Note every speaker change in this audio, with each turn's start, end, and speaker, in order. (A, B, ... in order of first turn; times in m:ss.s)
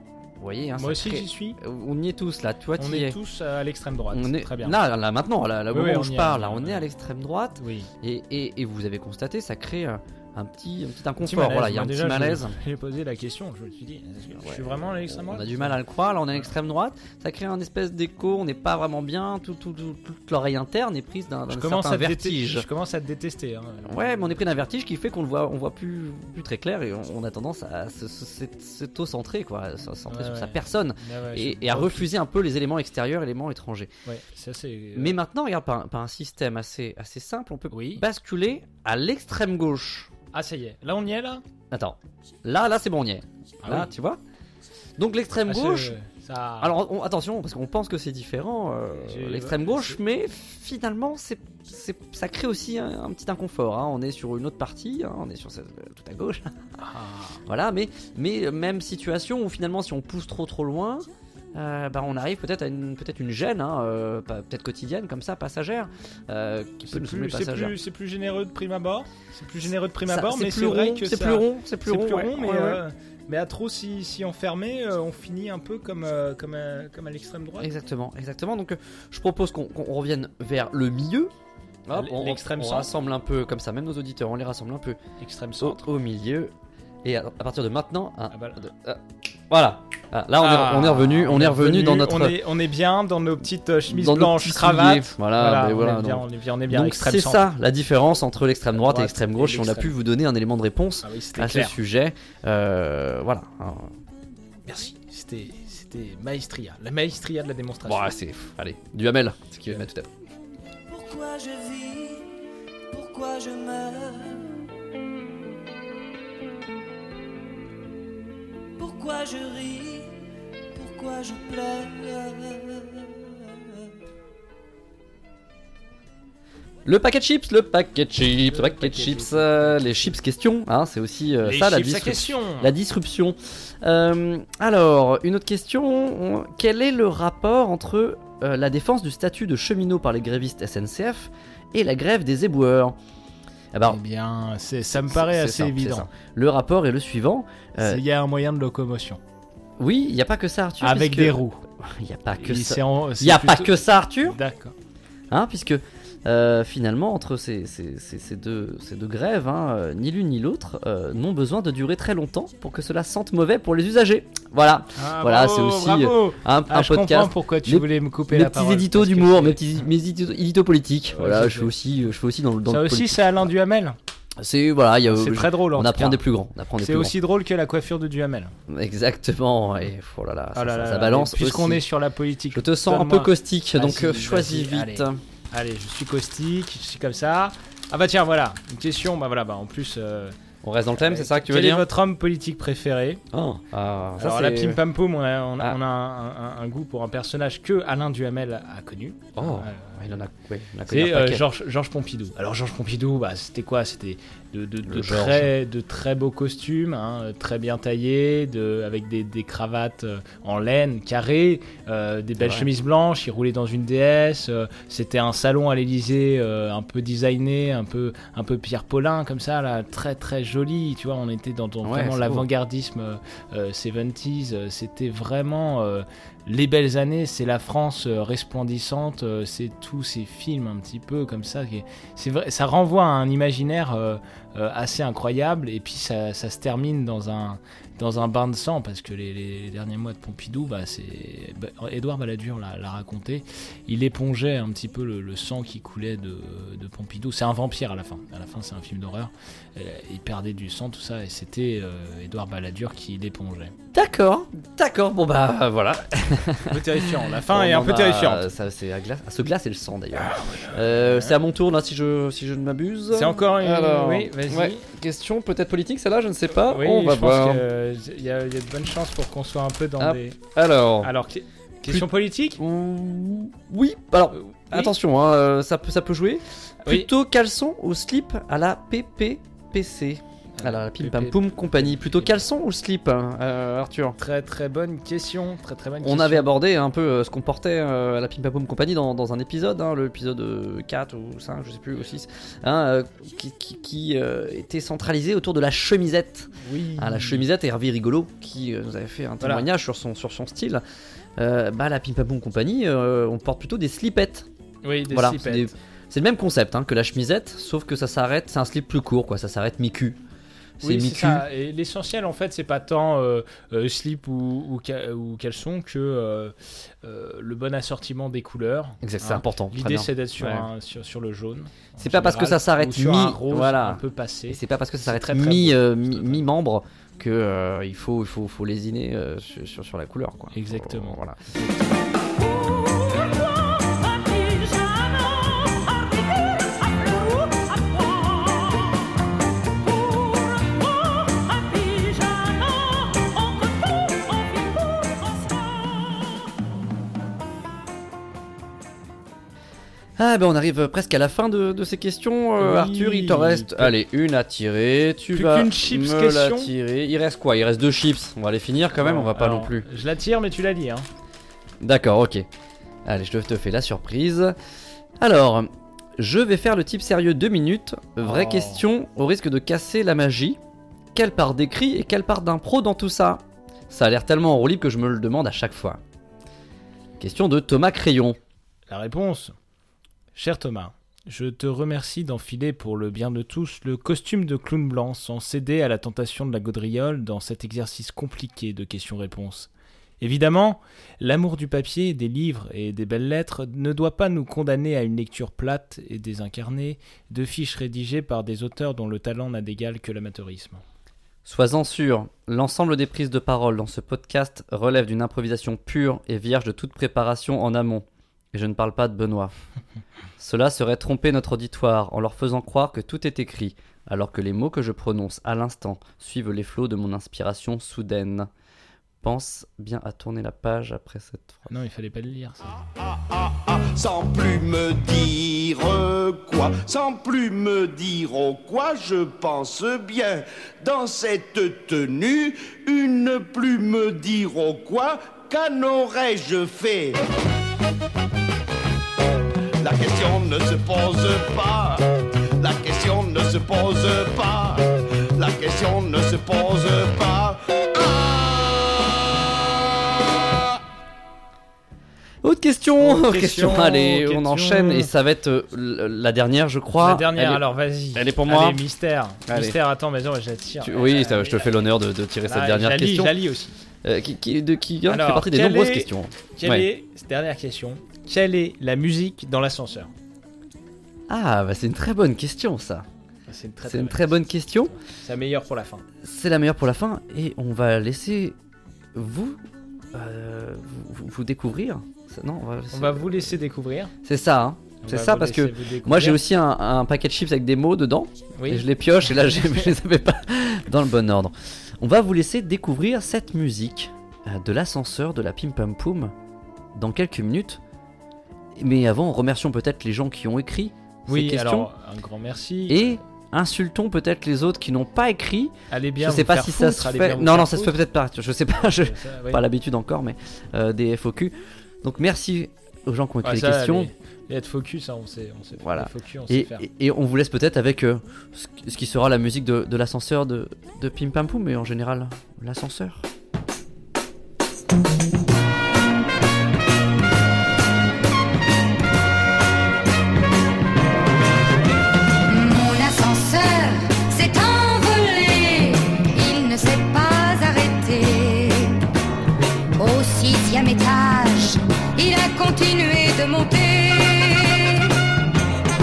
0:00.4-0:03.2 A
0:00.8-0:01.6 B
0:02.8-0:04.8 B
0:04.1-0:12.5 A
0:05.7-0:06.8 B
0:07.6-0:07.9 B
0:11.2-0:15.7 B
0:14.4-0:22.6 A
0:21.5-0:24.5 B
0:23.8-0:33.9 A
0:30.1-0:32.1 B
0:34.0-0:35.2 B
0:34.9-0:40.1 A
0:37.7-0:38.0 B
0:40.3-0:41.4 B
0:41.7-0:44.2 A
0:43.6-0:43.9 B
0:45.0-0:45.9 A
0:45.5-0:46.7 B
0:46.6-0:56.6 A
0:49.0-0:50.0 B
0:56.8-0:57.4 B
0:57.4-1:07.7 A
1:06.9-1:17.7 B
1:10.1-1:12.8 A
1:17.6-1:21.3 A
1:21.9-1:25.0 A
1:21.9-1:22.9 B
1:25.2-1:25.8 B
1:25.6-1:26.5 A
1:27.0-1:32.4 A
1:28.3-1:28.6 B
1:30.4-1:37.4 B
1:33.9-1:43.9 A
1:38.7-1:39.9 B
1:41.0-1:41.8 B
1:44.7-1:48.1 B
1:47.8-1:50.1 A
1:50.9-1:52.3 C
1:52.9-1:54.6 C
1:58.8-2:00.1 C
2:00.7-2:03.8 C
2:06.8-2:23.0 A
2:08.4-2:10.2 B
2:11.4-2:12.7 B
2:23.7-2:24.0 A
2:23.8-2:26.1 B
2:25.0-2:28.0 A
2:27.8-2:29.2 B
2:29.8-2:34.4 A
2:30.8-2:31.6 B
2:32.4-2:34.7 B
2:35.3-2:53.2 A
2:45.0-2:49.9 B
2:51.1-2:51.7 B
2:52.7-2:54.0 B
2:54.4-2:57.1 A
2:55.1-2:56.2 B
2:56.8-2:58.5 B
2:58.7-3:01.8 A
3:00.5-3:10.4 B
3:02.5-3:05.2 A
3:10.6-3:11.8 A
3:11.0-3:13.2 B
3:13.3-3:14.8 A
3:14.2-3:20.0 B
3:19.4-3:21.4 A
3:20.9-4:13.7 B
3:24.9-3:25.5 A
3:32.4-3:32.7 A
3:41.8-3:42.4 A
4:13.9-4:27.6 A
4:16.6-4:18.4 B
4:20.2-4:21.4 B
4:23.1-4:24.8 B
4:26.5-4:30.4 B
4:30.0-4:31.1 A
4:31.0-4:32.6 B
4:31.9-4:44.2 A
4:34.3-4:34.9 B
4:40.6-4:42.4 B
4:44.2-4:46.5 B
4:46.0-5:00.8 A
4:56.6-4:57.4 B
4:59.4-4:59.6 B
5:01.4-5:04.5 A
5:04.8-5:05.7 B
5:05.1-5:10.2 A
5:10.8-5:26.4 B
5:10.8-5:11.4 A
5:19.0-5:20.6 A
5:22.0-5:31.4 A
5:30.5-5:32.0 B
5:50.2-5:59.8 A
5:52.6-5:53.9 B
5:55.3-5:56.7 B
5:59.0-6:01.1 B
6:01.8-6:02.5 A
6:03.0-6:04.5 A
6:05.2-6:10.6 A
6:08.2-6:08.8 B
6:11.1-6:16.0 A
6:17.2-6:18.4 A
6:18.9-6:19.5 B
6:20.3-6:29.7 B
6:30.2-6:40.8 B
6:41.4-6:49.5 A
6:50.4-6:58.5 A
6:59.2-7:01.6 A
7:01.7-7:02.7 B
7:02.9-7:17.2 D
7:19.8-7:22.1 D
7:22.6-7:28.5 D
7:32.4-7:37.6 A
7:33.0-7:35.1 B
7:37.0-7:41.8 B
7:38.1-7:38.8 A
7:39.5-7:39.8 A
7:40.8-7:43.4 A
7:42.4-7:43.8 B
7:44.0-7:46.9 A
7:45.1-7:50.1 B
7:51.3-7:53.0 A
7:53.5-7:54.4 B
7:53.9-7:54.9 A
7:55.0-7:56.0 B
7:56.2-7:58.5 A
7:59.1-7:59.6 A
8:00.1-8:03.5 A
8:02.9-8:04.1 B
8:04.2-8:16.3 A
8:05.0-8:06.4 B
8:08.6-8:08.8 B
8:16.9-8:17.8 A
8:18.8-8:21.9 A
8:21.3-8:23.2 B
8:22.9-8:34.1 A
8:25.9-8:27.9 B
8:28.8-8:29.6 B
8:33.4-8:36.8 B
8:35.8-8:43.2 A
8:52.4-8:59.0 E
9:00.0-9:05.1 E